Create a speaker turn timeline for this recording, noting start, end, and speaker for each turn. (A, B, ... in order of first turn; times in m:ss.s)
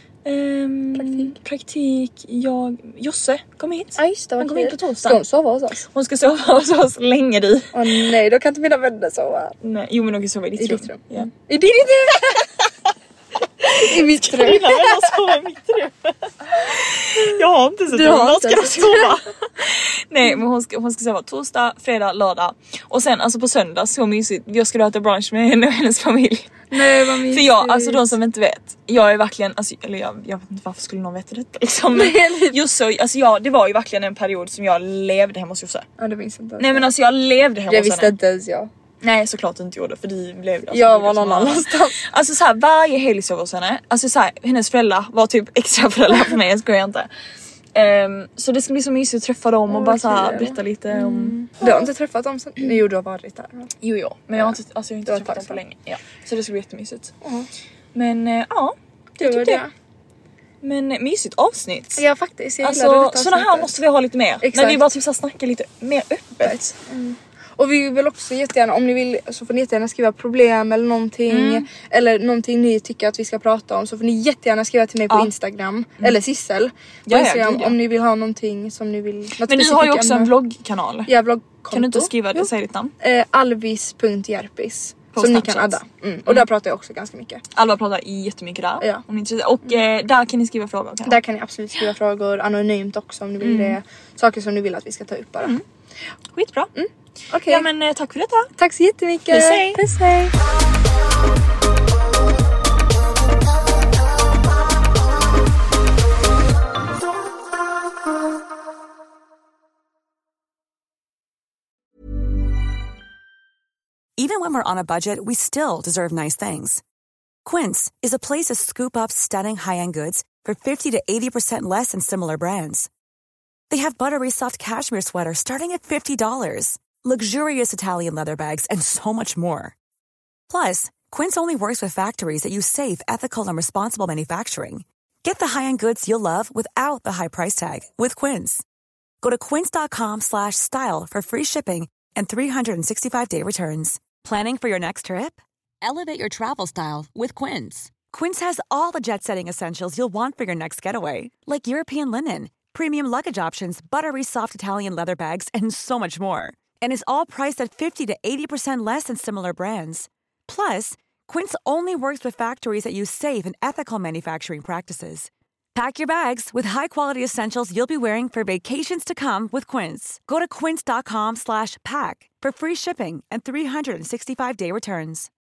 0:00.2-0:05.2 A
0:01.0-0:01.4 B
0:04.0-0:05.9 B
0:05.9-0:07.8 A
0:07.7-0:09.6 B
0:09.6-0:11.3 A
0:10.6-0:12.5 B
0:13.6-0:35.9 A
0:13.7-0:15.2 B
0:17.9-0:19.2 B
0:26.7-0:28.0 B
0:31.9-0:32.6 B
0:36.0-0:36.9 B
0:36.6-0:38.1 A
0:37.7-0:38.7 B
0:39.0-0:47.1 A
0:40.7-0:42.0 B
0:47.8-0:51.9 A
0:49.7-0:53.7 B
0:53.8-0:57.1 A
0:54.3-0:55.6 B
0:57.2-0:57.5 B
0:58.0-0:59.6 A
0:59.2-0:59.7 B
1:00.6-1:02.0 A
1:02.0-1:03.8 B
1:02.6-1:06.7 A
1:04.4-1:04.9 B
1:06.4-1:20.3 B
1:11.3-1:11.7 A
1:17.1-1:17.8 A
1:19.4-1:21.1 A
1:21.1-1:27.4 B
1:21.7-1:22.9 A
1:25.1-1:26.5 A
1:27.6-1:31.2 A
1:31.1-1:35.6 B
1:33.4-1:33.8 A
1:36.3-1:36.7 A
1:36.8-1:37.7 B
1:37.5-1:38.5 A
1:38.6-1:40.3 B
1:39.3-1:39.8 A
1:54.2-1:56.8 C
1:57.4-2:02.9 C
2:03.7-2:09.8 C
2:10.5-2:18.6 C
2:19.2-2:55.3 C